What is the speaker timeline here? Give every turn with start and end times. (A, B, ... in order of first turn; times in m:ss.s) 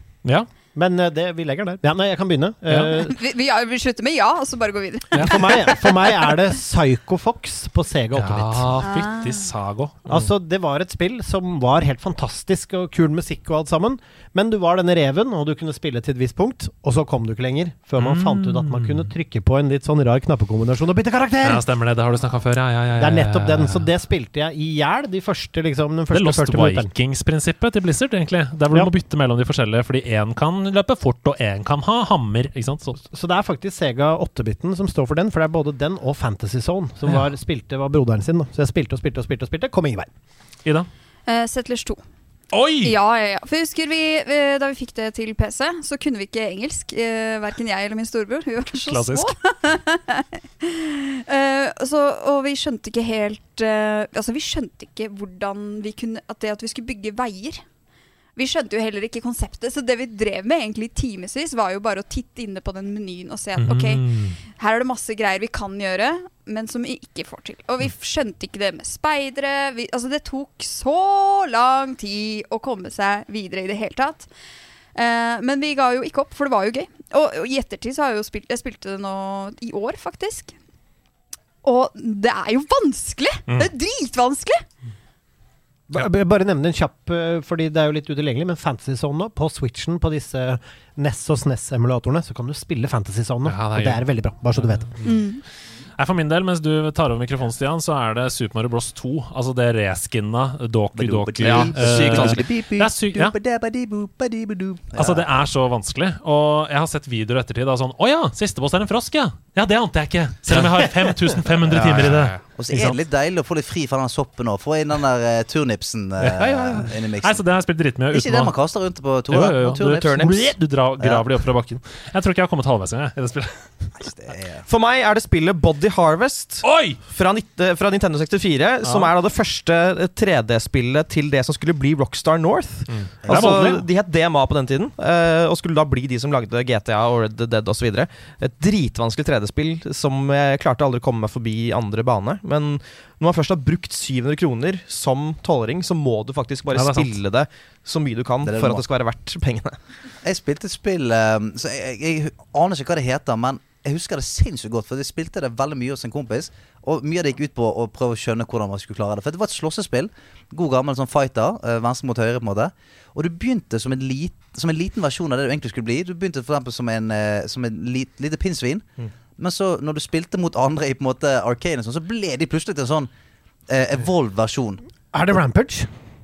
0:00.8-0:03.2 A
0:03.0-0:06.4 B
0:05.2-0:08.7 A
0:08.2-0:10.3 C
0:08.8-0:09.5 B
0:10.1-0:21.6 A
0:18.0-0:19.1 C
0:21.4-0:23.9 C
0:23.0-0:26.9 A
0:26.1-0:33.0 C
0:33.1-0:40.1 A
0:41.3-0:42.0 B
0:42.5-0:43.0 C
0:42.8-0:57.6 B
0:48.8-0:49.3 C
0:58.4-1:14.3 B
1:03.6-1:04.4 C
1:15.0-1:20.5 B
1:21.6-1:24.6 B
1:25.9-1:34.9 A
1:33.5-1:35.2 C
1:35.0-1:35.4 B
1:36.0-1:43.4 C
1:41.0-1:45.2 D
1:41.4-1:42.6 E
1:45.0-1:53.0 C
1:51.7-1:52.4 E
1:52.6-1:57.4 D
1:56.2-1:58.5 C
1:58.1-2:00.1 D
1:59.3-2:03.6 C
1:59.9-2:00.5 E
2:01.0-2:01.3 D
2:04.0-2:04.7 D
2:04.7-2:29.8 E
2:06.6-2:07.0 C
2:08.8-2:09.1 C
2:12.9-2:13.9 C
2:13.2-2:13.6 D
2:26.7-2:27.2 C
2:28.4-2:28.8 D
2:30.2-2:53.1 D
2:53.7-2:54.8 D
2:55.1-2:55.9 A